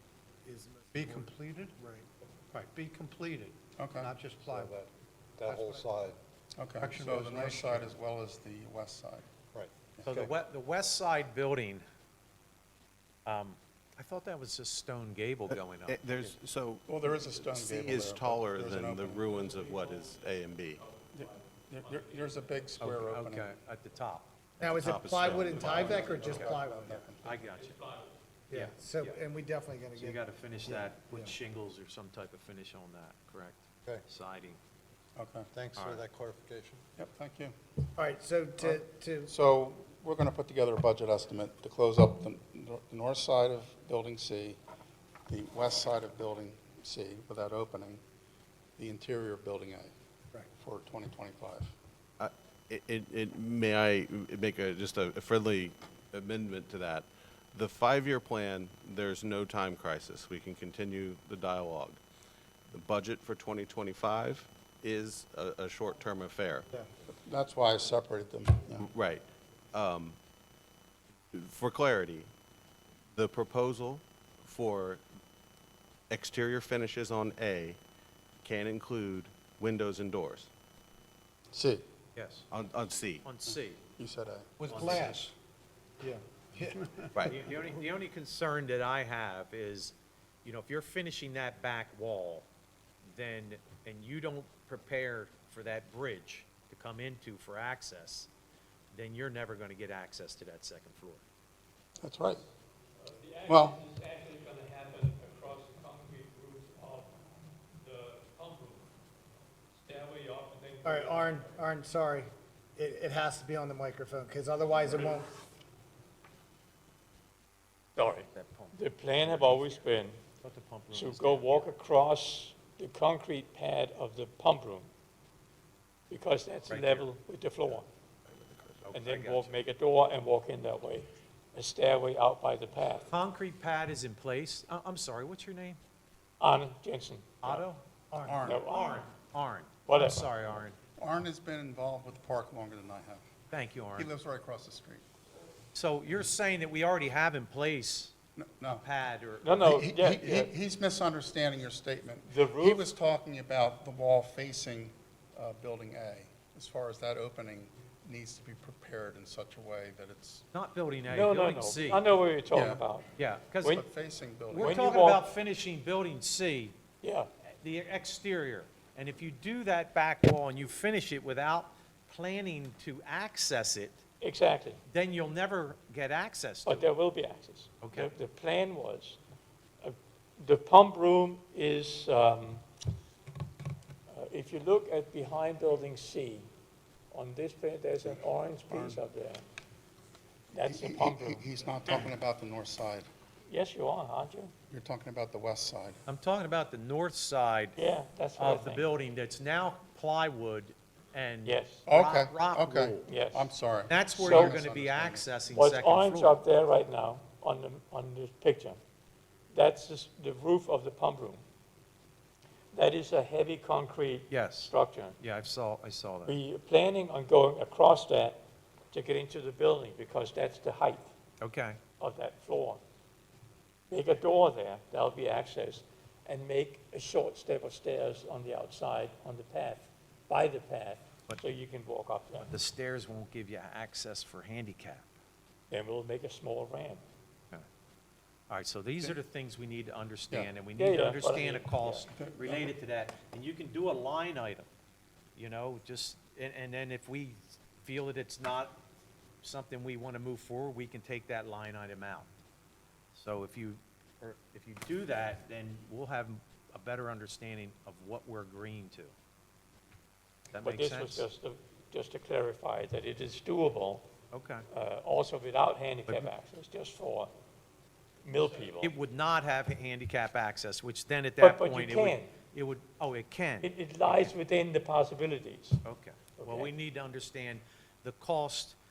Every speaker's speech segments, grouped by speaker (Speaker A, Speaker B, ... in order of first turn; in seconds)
Speaker A: 0.4-2.7, 4.2-4.7, 5.4-6.0, 24.6-27.0, 28.5-31.3, 38.0-39.3, 84.7-85.3, 86.0-87.3, 110.8-115.3, 138.1-138.7
Speaker B: 0.9-1.7, 2.5-4.6, 6.8-7.9
Speaker C: 3.8-4.2, 6.5-9.3, 9.9-10.3, 16.9-19.4, 21.1-23.5, 25.4-27.2, 35.1-35.5, 37.0-37.5, 38.6-44.6, 45.3-48.0, 48.8-49.9, 50.5-51.7, 67.1-68.9, 81.5-81.8, 84.0-85.1, 102.0-102.4, 103.5-103.8, 138.2-138.7, 141.0-143.3, 143.9-145.0, 148.4-148.8, 149.6-160.4, 162.5-162.8, 163.6-165.0, 188.0-189.0, 190.7-193.1, 194.7-196.0, 201.8-205.3, 242.1-242.7
Speaker D: 4.5-6.2, 9.5-10.3, 35.5-36.8
Speaker E: 10.0-11.8, 13.2-16.0, 22.8-24.3, 27.2-27.8, 28.5-29.2, 29.9-34.6, 35.8-36.0, 82.2-82.5, 83.2-83.8, 84.7-85.2, 87.2-92.5, 93.0-98.3, 98.9-101.2, 118.2-119.9, 120.4-121.7, 126.7-127.1, 128.8-129.5, 133.1-135.8, 137.4-137.8, 138.6-140.8, 143.5-144.1, 145.7-148.1, 148.8-149.6, 160.5-162.0, 163.2-163.8, 164.5-166.8, 167.6-174.0, 174.9-176.9, 177.8-178.1, 196.1-197.8, 198.4-203.1, 203.9-206.4, 214.3-216.3, 221.4-221.8, 232.4-235.1, 238.5-244.7, 245.3-248.8, 249.4-252.3, 253.1-259.1, 260.5-261.3, 264.3-264.6, 268.8-274.3, 275.8-278.8
Speaker F: 15.8-20.8, 24.6-25.9, 52.2-62.0, 62.7-66.7, 68.8-70.2, 71.3-72.3, 73.1-75.0, 76.1-77.8, 78.4-80.5, 82.5-83.3
Speaker G: 19.3-20.2, 20.8-22.5, 27.3-28.1, 103.0-107.2, 107.7-108.9, 109.7-111.7, 118.0-120.2, 120.9-124.9, 126.1-127.8, 128.9-133.1, 136.4-137.6, 138.4-139.0, 139.9-140.6, 149.4-150.5, 152.3-152.8, 161.1-163.1, 164.6-165.2, 167.0-167.3, 174.2-174.8, 176.7-179.2, 179.8-182.6, 184.1-186.5, 187.1-189.4, 190.5-191.5, 193.5-194.5, 197.8-198.8, 201.4-201.8, 203.1-203.5, 204.2-204.5, 205.5-208.8, 209.5-211.4, 212.7-215.2, 216.2-218.4, 218.9-221.1, 222.0-222.8, 223.9-232.5, 235.7-237.0, 240.8-242.1, 260.6-264.1, 264.7-267.3, 268.2-268.9, 271.4-272.3, 273.6-275.8, 276.4-276.7